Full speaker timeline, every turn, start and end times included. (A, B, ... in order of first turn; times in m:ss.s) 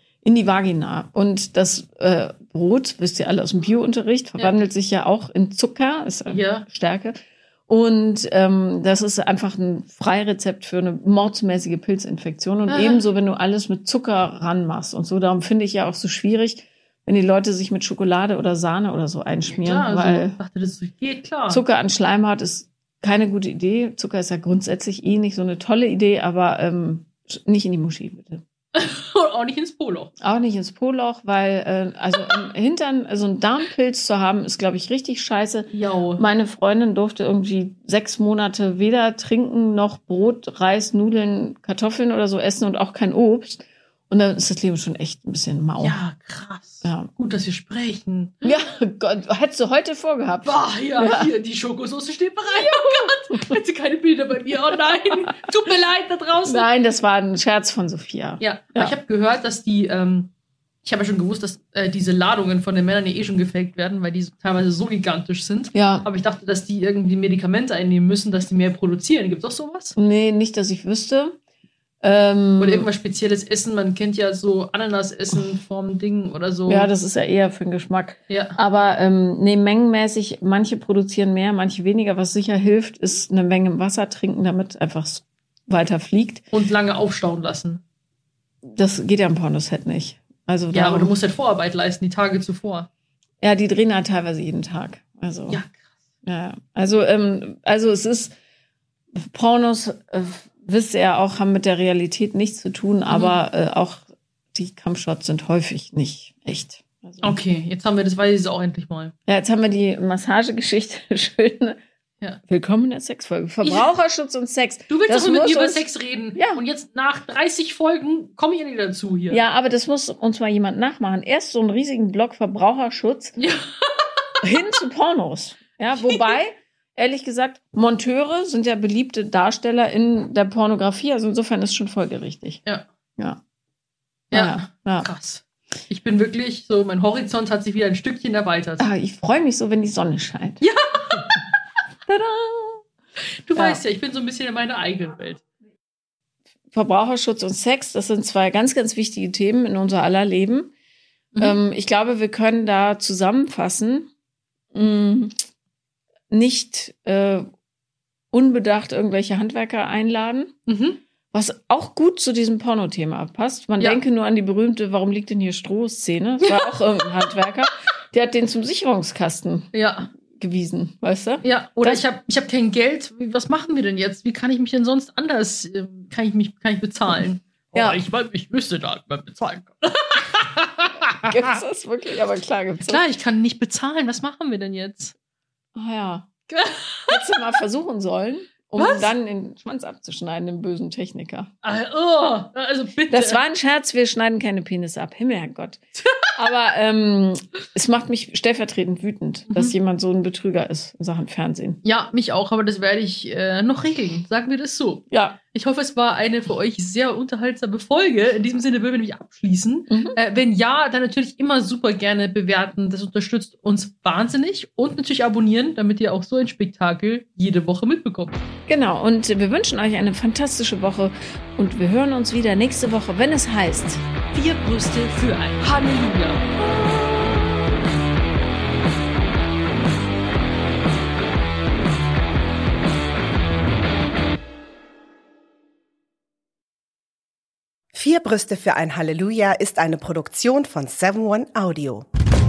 0:00.2-0:07.2 A
0:06.3-0:06.7 B
0:07.7-0:20.4 A
0:12.7-0:13.0 B
0:19.5-0:21.6 B
0:21.5-0:28.4 A
0:28.7-0:30.1 B
0:30.2-0:46.0 A
0:35.7-0:36.2 B
0:45.8-0:48.4 B
0:46.8-0:47.1 A
0:48.4-0:51.3 A
0:50.4-0:56.7 B
0:52.5-0:53.5 A
0:55.1-0:55.5 A
0:56.4-0:58.9 A
0:58.4-1:00.3 B
1:00.8-1:10.0 B
1:05.7-1:06.1 A
1:10.0-1:11.4 A
1:12.0-1:12.9 A
1:12.6-1:16.9 B
1:16.7-1:26.4 A
1:18.3-1:18.6 B
1:26.5-1:27.8 B
1:28.7-1:31.1 A
1:30.7-1:32.9 B
1:33.4-1:35.6 A
1:35.5-1:35.8 B
1:36.2-1:38.3 A
1:39.1-1:47.4 A
1:47.2-1:49.1 B
1:49.3-1:51.8 A
1:52.5-1:55.8 A
1:54.9-1:59.4 B
1:56.3-1:56.6 A
1:59.3-2:03.3 A
2:03.4-2:04.3 B
2:04.4-2:12.6 A
2:14.3-2:18.9 B
2:14.3-2:15.1 A
2:18.8-2:20.6 A
2:20.6-2:21.3 B
2:22.1-2:25.4 B
2:26.7-2:30.7 A
2:31.4-2:34.1 A
2:34.7-2:35.4 A
2:36.3-2:37.5 A
2:38.3-2:40.5 A
2:40.7-2:41.0 B
2:41.3-2:52.0 A
2:49.7-2:50.1 B
2:51.4-3:01.4 B
2:57.7-2:58.0 A
3:01.2-3:03.0 A
3:02.8-3:05.1 B
3:05.7-3:06.3 A
3:06.5-3:07.2 B
3:07.1-3:11.5 A
3:08.8-3:09.1 B
3:11.6-3:13.4 B
3:13.1-3:15.8 A
3:16.0-3:16.3 B
3:16.3-3:21.8 A
3:19.5-3:19.7 B
3:21.8-3:38.4 B
3:25.1-3:25.4 A
3:29.9-3:30.2 A
3:38.7-3:44.0 A
3:44.3-3:46.4 B
3:57.9-4:02.1 C